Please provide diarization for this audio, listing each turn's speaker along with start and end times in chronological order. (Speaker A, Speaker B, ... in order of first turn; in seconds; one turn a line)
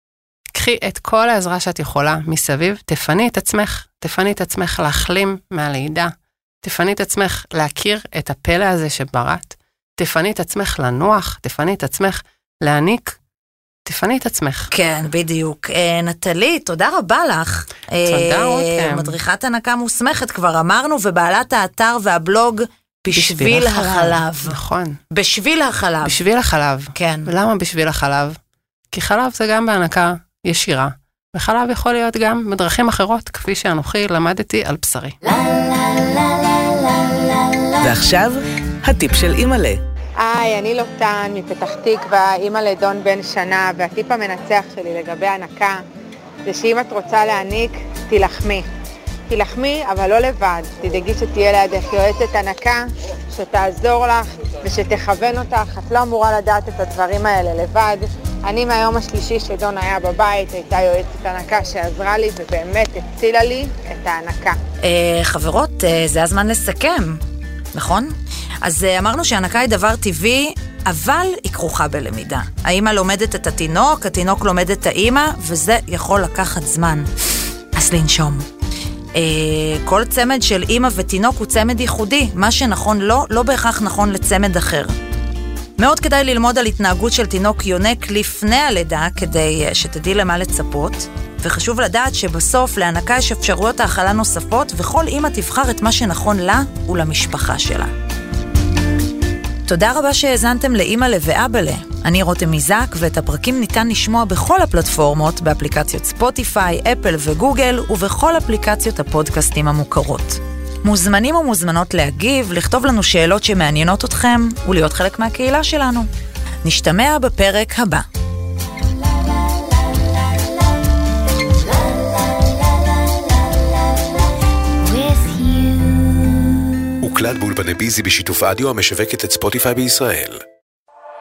Speaker A: 0.5-13.2
Speaker A: 13.9-14.7
Speaker B: 14.7-24.6
Speaker A: 18.1-19.2
Speaker A: 23.1-25.0
Speaker B: 25.1-26.2
Speaker A: 26.0-28.4
Speaker B: 26.9-27.3
Speaker A: 28.9-35.2
Speaker C: 37.8-39.8
Speaker D: 40.2-45.8
Speaker D: 46.5-48.6
Speaker D: 49.3-64.6
Speaker B: 64.8-67.2
Speaker B: 67.7-77.1
Speaker B: 77.8-78.5
Speaker B: 79.2-84.9
Speaker B: 85.8-97.9
Speaker B: 99.7-116.1
Speaker B: 116.6-118.0
Speaker B: 125.1-125.4
Speaker E: 127.0-130.4